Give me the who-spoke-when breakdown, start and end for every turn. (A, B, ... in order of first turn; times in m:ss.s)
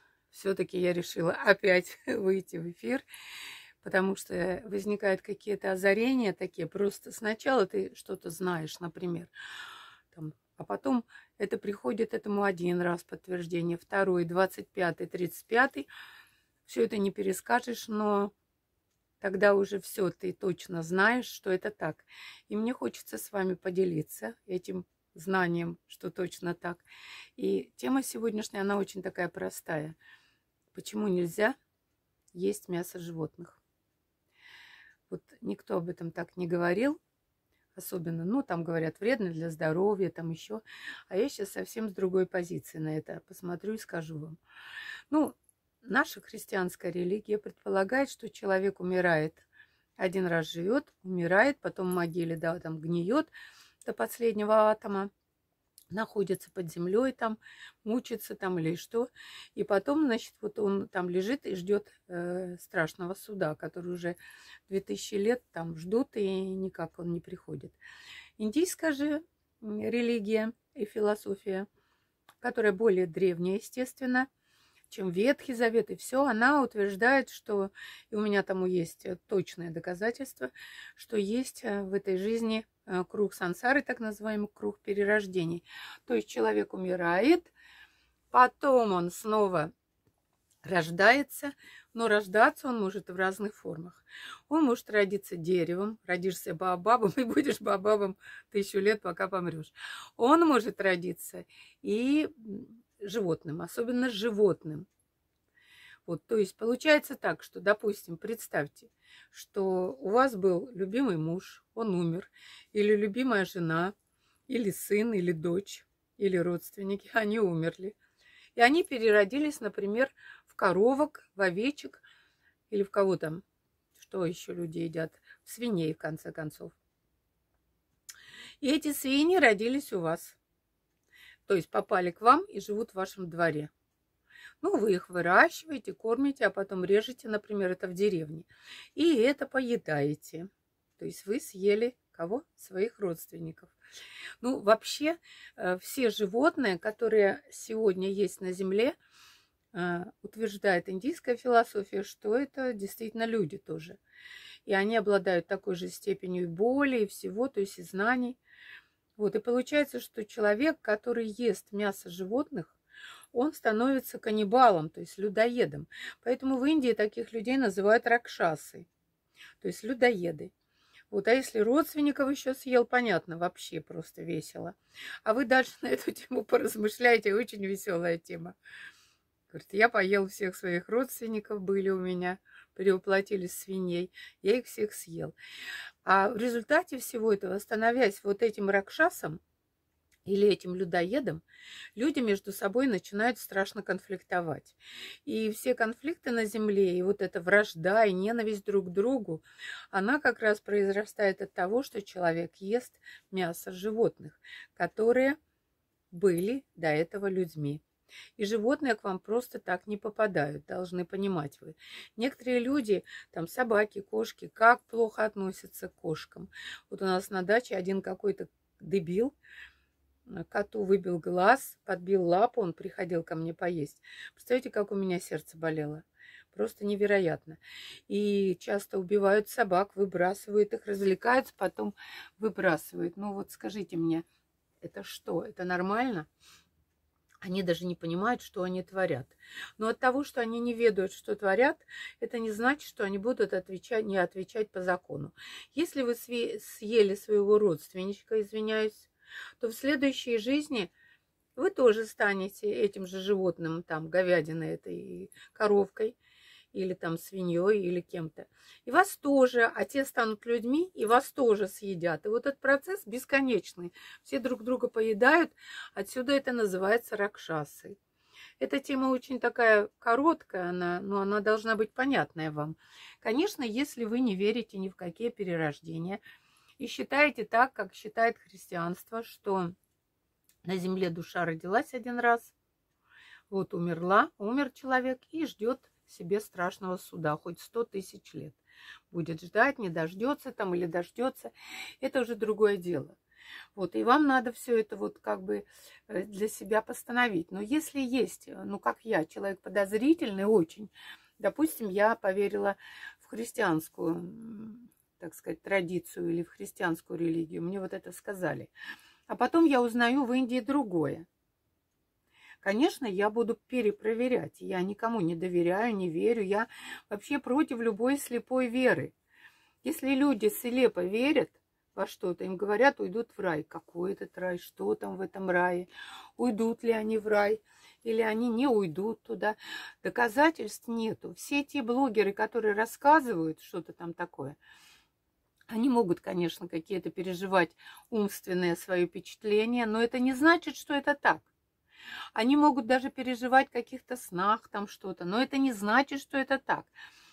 0:00.3-0:03.0 A
0:03.8-0:09.3 A
0:10.1-0:15.9 A
0:16.6-0:18.3 A
0:19.2-0:26.8 A
0:27.4-0:30.0 A
0:30.7-0:31.6 A
0:32.3-0:33.6 A
0:35.1-0:37.0 A
0:37.8-0:44.4 A
0:45.1-0:49.5 A
0:50.0-0:53.3 A
0:53.8-0:55.1 A
0:55.9-1:04.2 A
1:04.7-1:07.8 A
1:08.4-1:11.7 A
1:12.4-1:14.3 A
1:14.9-1:27.5 A
1:28.3-1:29.7 A
1:30.6-1:44.9 A
1:46.1-1:53.9 A
1:54.5-1:58.0 A
1:58.6-2:02.0 A
2:02.7-2:03.4 A
2:04.0-2:06.8 A
2:08.6-2:10.4 A
2:11.5-2:13.7 A
2:14.6-2:23.7 A
2:24.4-2:29.0 A
2:29.7-2:34.0 A
2:34.7-2:38.4 A
2:39.2-2:42.8 A
2:43.3-2:48.9 A
2:49.6-2:50.5 A
2:51.1-2:58.6 A
2:59.5-3:05.4 A
3:06.0-3:09.4 A
3:10.2-3:11.4 A
3:12.0-3:25.4 A
3:26.1-3:27.8 A
3:28.4-3:39.3 A
3:40.3-3:54.2 A
3:54.8-3:56.3 A
3:57.4-4:09.1 A
4:09.6-4:10.9 A
4:11.6-4:16.2 A
4:16.7-4:28.0 A
4:28.6-4:36.2 A
4:36.8-4:39.7 A
4:40.6-4:42.5 A
4:43.5-4:48.6 A
4:49.1-4:53.2 A
4:53.8-5:08.7 A
5:09.3-5:11.3 A
5:12.6-5:19.1 A
5:19.8-5:34.6 A
5:35.7-5:41.5 A
5:42.4-5:46.9 A